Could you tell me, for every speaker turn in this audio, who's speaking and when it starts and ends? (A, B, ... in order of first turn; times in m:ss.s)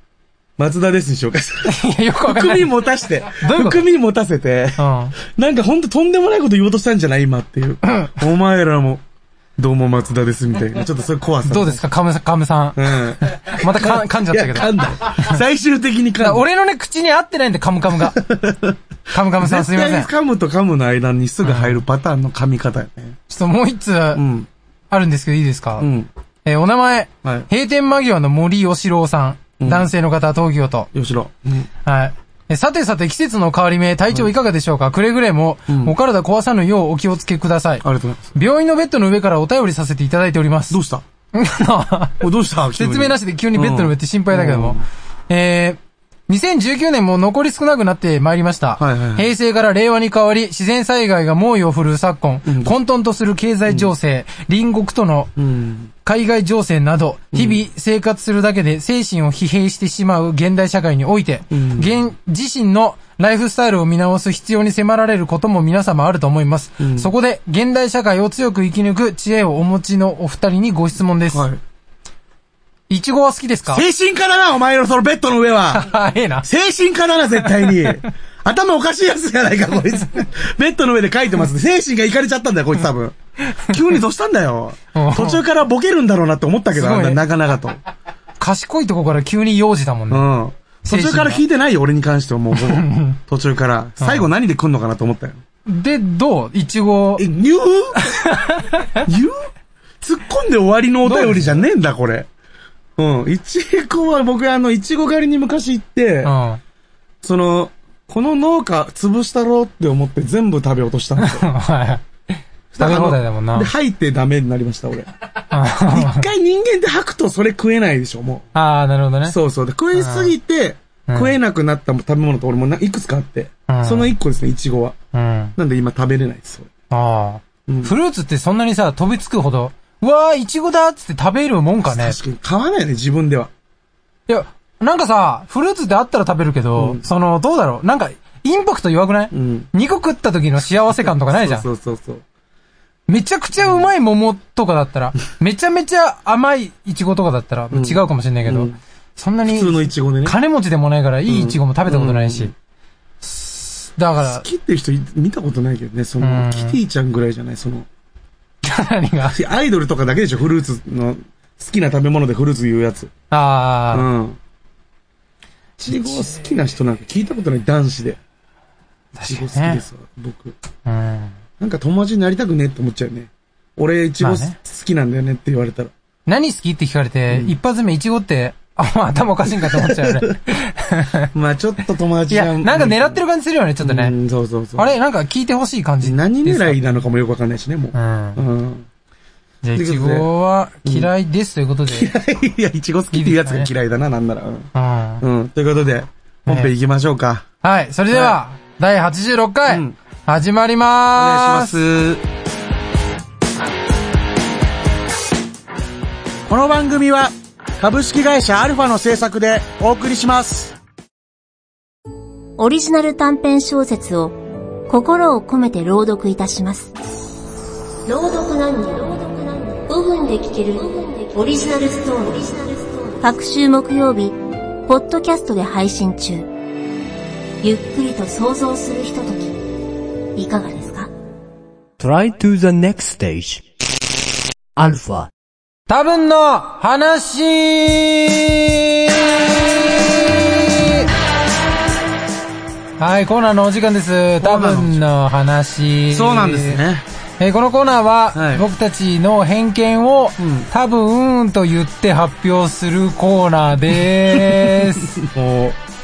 0:00.6-0:09.0 A
0:01.7-0:02.8 B
0:03.3-0:03.9 B
0:04.8-0:05.2 B
0:07.8-0:08.2 B
0:09.6-0:11.8 A
0:11.4-0:15.4 B
0:12.8-0:16.4 A
0:16.2-0:18.2 B
0:17.9-0:18.8 A
0:19.1-0:20.1 B
0:19.4-0:23.2 A
0:21.4-0:21.8 B
0:23.3-0:24.2 B
0:24.1-0:24.5 A
0:24.9-0:25.9 B
0:25.8-0:26.1 A
0:26.4-0:30.9 B
0:29.6-0:29.9 A
0:30.9-0:31.7 A
0:31.8-0:37.8 B
0:35.7-0:36.0 A
0:37.8-0:38.4 A
0:38.4-0:40.8 B
0:40.7-0:41.0 A
0:41.3-0:42.2 B
0:42.2-0:44.8 A
0:42.8-0:55.3 B
0:48.8-0:49.3 A
0:52.5-0:52.8 A
0:55.4-0:55.9 A
0:56.0-1:11.5 B
0:57.3-0:57.6 A
1:01.5-1:02.0 A
1:06.8-1:07.1 A
1:11.3-1:11.6 A
1:12.9-1:13.8 B
1:13.7-1:27.8 A
1:15.7-1:16.5 B
1:17.4-1:18.0 B
1:24.9-1:25.4 B
1:26.7-1:27.2 B
1:28.4-1:30.3 B
1:30.1-1:35.4 A
1:30.8-1:31.4 B
1:32.6-1:33.2 B
1:34.0-1:34.3 B
1:35.7-1:37.3 B
1:37.2-1:38.2 A
1:38.0-1:39.0 B
1:39.0-1:39.5 A
1:40.0-1:42.3 A
1:41.0-1:41.6 B
1:43.0-1:46.4 A
1:46.2-1:46.6 B
1:47.2-1:51.5 A
1:51.2-1:52.0 B
1:52.7-1:55.1 A
1:52.8-1:53.7 B
1:55.5-1:56.3 B
1:55.9-1:58.5 A
1:58.5-1:59.4 B
1:59.2-2:05.0 A
2:00.0-2:00.3 B
2:01.1-2:01.3 B
2:03.7-2:04.1 B
2:05.1-2:05.6 B
2:05.6-2:06.7 A
2:06.9-2:12.2 B
2:07.7-2:08.0 A
2:11.9-2:13.5 A
2:14.3-2:21.7 B
2:16.8-2:17.0 A
2:19.3-2:19.7 A
2:20.9-2:22.2 A
2:23.1-2:32.5 B
2:23.6-2:23.9 A
2:27.7-2:28.8 A
2:29.5-2:30.4 A
2:31.3-2:32.5 A
2:33.2-2:34.4 B
2:34.2-2:37.9 A
2:36.2-2:36.8 B
2:38.6-2:39.4 B
2:39.3-2:43.1 A
2:43.3-2:44.1 B
2:43.9-2:44.4 A
2:45.8-2:48.2 A
2:45.9-2:46.5 B
2:49.2-2:49.8 B
2:49.3-2:50.6 A
2:50.9-2:51.4 B
2:51.6-2:55.9 A
2:54.2-2:54.6 B
2:56.3-3:01.3 B
2:57.3-2:57.6 A
2:59.5-3:00.4 A
3:01.3-3:03.2 A
3:02.3-3:04.2 B
3:03.8-3:05.0 A
3:04.8-3:07.0 B
3:06.0-3:08.9 A
3:07.9-3:08.4 B
3:09.6-3:12.1 B
3:09.8-3:10.3 A
3:10.8-3:11.1 A
3:11.9-3:14.7 A
3:13.1-3:13.7 B
3:14.8-3:15.2 B
3:15.2-3:17.4 A
3:16.5-3:16.7 B
3:17.6-3:21.8 B
3:18.1-3:18.4 A
3:19.7-3:20.0 A
3:21.2-3:22.2 A
3:26.5-3:30.8 A
3:32.6-3:34.4 C
3:34.9-3:36.9 C
3:38.1-3:46.5 C
3:47.6-3:49.6 C
3:50.4-3:51.1 C
3:52.0-3:53.6 D
3:54.8-3:55.3 D
3:55.9-4:01.1 B
4:03.0-4:06.8 B
4:04.4-4:05.0 A
4:06.1-4:07.0 A
4:07.4-4:15.2 B
4:08.3-4:08.6 A
4:10.4-4:10.7 A
4:14.3-4:15.8 A